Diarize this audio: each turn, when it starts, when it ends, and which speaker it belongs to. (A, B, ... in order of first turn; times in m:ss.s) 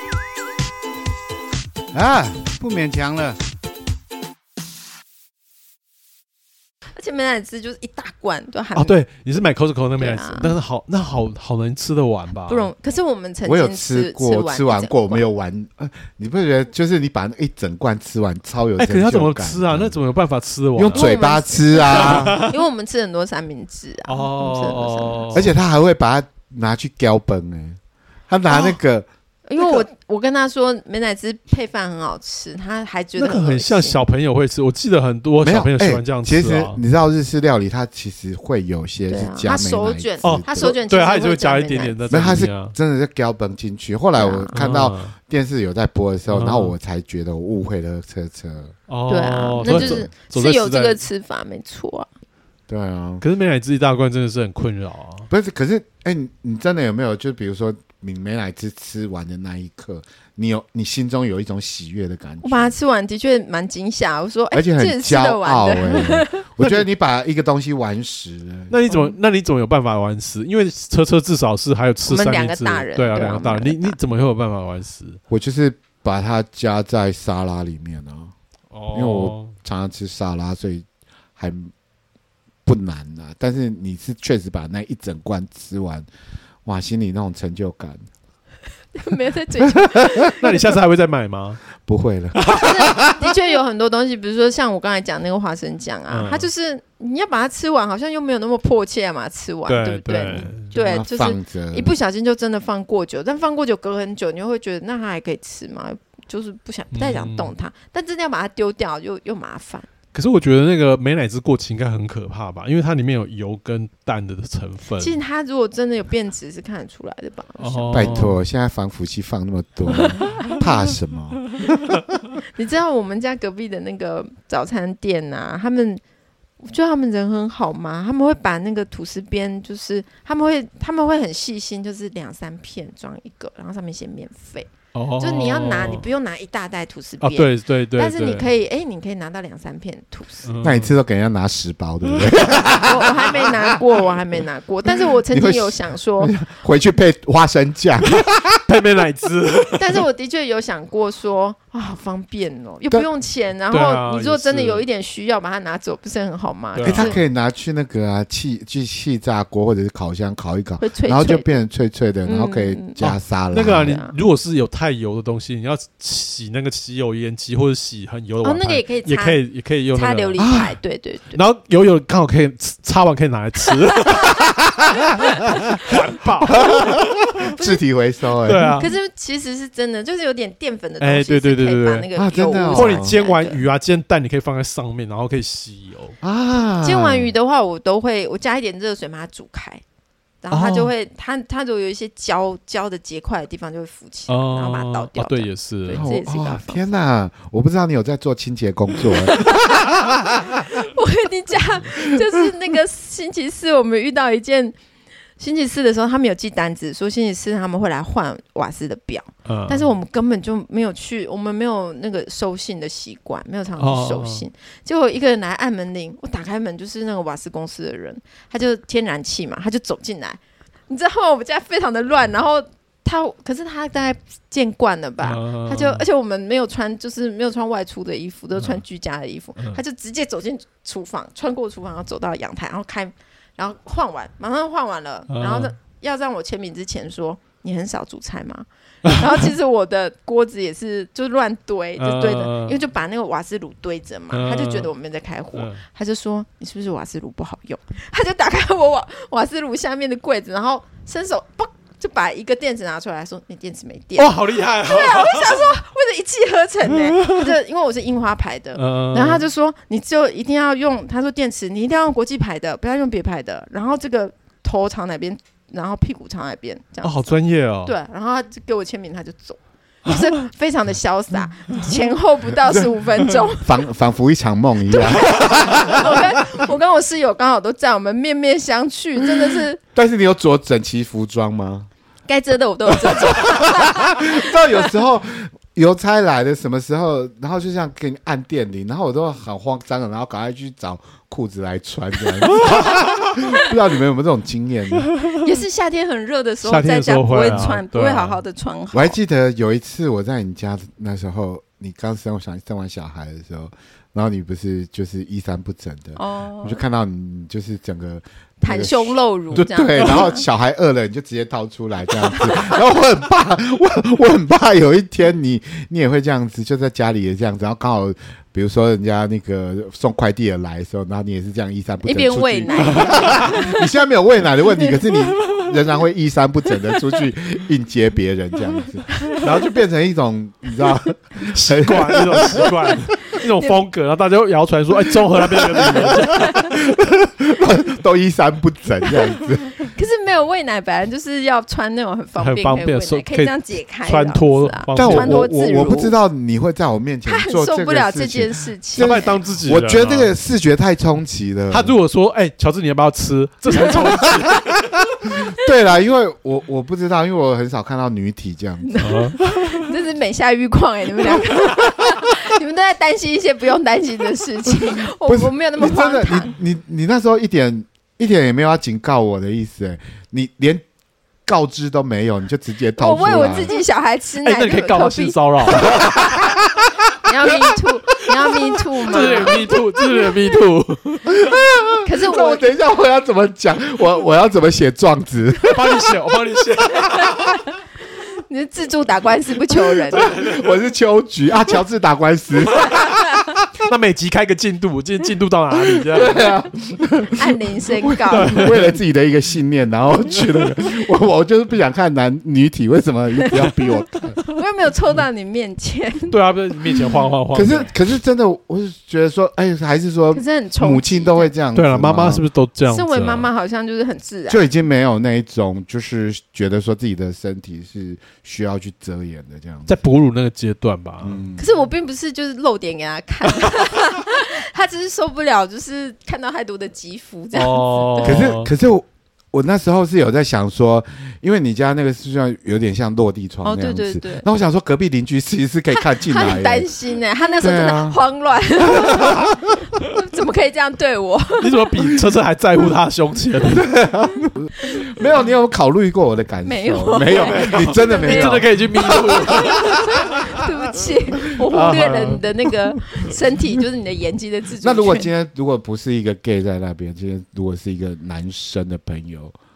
0:01.9-0:03.4 A
0:07.0-0:09.0 B
0:08.7-0:12.7 C
0:10.0-0:10.5 B
0:12.5-0:15.2 B
0:13.4-0:20.0 A
0:18.8-0:21.1 C
0:20.7-0:22.4 A
0:20.9-0:25.4 B
0:21.9-0:22.5 C
0:24.1-0:25.5 C
0:25.3-0:29.1 A
0:28.5-0:28.8 B
0:29.5-0:34.0 B
0:33.2-0:36.8 C
0:35.4-0:40.7 A
0:39.1-0:42.0 B
0:40.2-0:42.7 C
0:42.1-0:48.7 A
0:44.2-0:44.5 B
0:44.5-0:45.1 C
0:46.3-0:46.7 C
0:48.9-0:51.0 C
0:49.1-0:52.1 B
0:49.6-0:50.1 A
0:52.7-0:53.2 A
0:53.2-0:55.3 C
0:55.3-1:02.7 A
1:02.4-1:06.4 B
1:04.5-1:08.7 A
1:06.6-1:06.8 C
1:08.7-1:15.2 C
1:08.9-1:09.2 B
1:12.1-1:14.0 B
1:15.3-1:18.3 A
1:18.7-1:19.5 C
1:18.9-1:20.8 A
1:21.4-1:21.7 A
1:22.6-1:26.1 A
1:26.6-1:28.0 A
1:28.9-1:30.7 B
1:29.8-1:30.3 A
1:30.3-1:31.6 C
1:31.8-1:33.3 A
1:32.4-1:32.7 C
1:32.5-1:49.9 B
1:36.1-1:36.5 C
1:39.7-1:40.7 C
1:40.7-1:42.0 A
1:46.9-1:47.5 C
1:50.1-1:55.2 C
1:55.0-1:58.2 B
1:57.6-1:58.4 C
1:57.9-2:01.9 A
2:00.0-2:00.6 B
2:02.5-2:06.0 B
2:06.6-2:20.5 B
2:14.9-2:16.0 C
2:17.2-2:18.5 C
2:20.4-2:20.9 C
2:20.6-2:23.8 A
2:22.8-2:26.4 B
2:25.3-2:28.6 A
2:28.7-2:30.0 C
2:29.7-2:37.2 B
2:33.7-2:34.8 C
2:36.8-2:37.2 C
2:36.8-2:44.0 A
2:40.8-2:41.5 B
2:42.2-2:43.0 B
2:43.0-2:50.4 C
2:43.6-2:44.2 B
2:48.4-2:49.4 B
2:49.9-2:51.4 B
2:50.4-2:50.8 A
2:51.3-2:54.5 C
2:54.1-2:54.4 B
2:55.0-2:55.9 B
2:55.2-2:56.9 C
2:56.6-2:58.8 A
2:56.6-2:56.8 B
2:57.5-2:57.8 B
2:58.4-2:58.9 C
2:58.6-3:03.6 B
3:01.0-3:02.1 C
3:02.2-3:03.2 A
3:02.7-3:06.2 C
3:06.2-3:07.3 A
3:06.8-3:09.8 B
3:10.4-3:16.8 B
3:10.5-3:10.9 C
3:14.3-3:16.0 C
3:15.9-3:20.8 A
3:19.4-3:19.9 B
3:20.5-3:24.8 B
3:25.4-4:33.7 B
3:29.4-3:29.9 C
3:33.8-3:34.4 C
3:45.2-3:46.0 C
3:55.3-3:55.7 C
3:59.0-3:59.4 C
4:02.0-4:02.8 C
4:04.3-4:04.9 C
4:05.5-4:05.8 C
4:14.2-4:15.7 C
4:16.9-4:17.5 C
4:18.7-4:19.4 C
4:27.0-4:27.9 C
4:32.7-4:36.2 A
4:34.9-4:39.8 B
4:39.9-4:41.9 A
4:42.3-4:44.9 B
4:43.1-4:55.1 A
4:52.5-4:52.9 C
4:55.4-4:59.2 B
4:56.6-4:58.4 C
4:58.9-5:33.1 A
5:06.2-5:06.8 B
5:08.6-5:10.4 B
5:12.3-5:12.7 B
5:22.0-5:23.8 B
5:22.8-5:23.5 C
5:29.3-5:29.8 C
5:31.5-5:36.8 C
5:33.4-5:33.8 B
5:35.6-5:39.9 A
5:36.3-5:36.7 B
5:39.8-5:46.1 B
5:42.4-5:45.5 C
5:44.9-5:52.0 A
5:47.2-5:49.4 B
5:49.0-5:50.3 C
5:51.7-5:54.7 C
5:55.2-5:59.0 A
5:58.9-6:06.5 B
5:59.0-5:59.9 C
6:04.8-6:10.8 A
6:11.4-6:13.7 A
6:13.0-6:16.2 B
6:14.4-6:16.5 C
6:17.2-6:19.7 B
6:19.1-6:21.3 C
6:19.1-6:19.8 A
6:21.4-6:26.2 A
6:22.0-6:22.7 B
6:25.7-6:27.5 C
6:27.1-6:27.4 B
6:28.5-6:30.3 B
6:30.0-6:33.4 A
6:30.1-6:30.7 C
6:33.8-6:36.5 C
6:35.9-6:37.4 A
6:37.3-6:38.7 B
6:38.0-6:44.4 A
6:38.3-6:38.9 C
6:40.3-6:40.8 C
6:44.3-6:46.4 B
6:46.3-6:47.9 C
6:47.5-6:52.4 A
6:50.3-6:51.5 B
6:51.7-6:53.5 C
6:52.9-6:54.7 B
6:54.5-6:59.9 A
6:59.9-7:01.4 C
7:01.2-7:01.7 A
7:01.6-7:08.5 B
7:07.5-7:08.7 C
7:08.2-7:16.9 A
7:13.6-7:14.4 B
7:16.0-7:22.1 B
7:17.6-7:18.2 A
7:18.9-7:19.4 A
7:21.6-7:23.9 C
7:23.7-7:29.6 A
7:26.6-7:35.3 B
7:27.3-7:30.6 C
7:31.7-7:32.5 C
7:34.8-7:39.5 A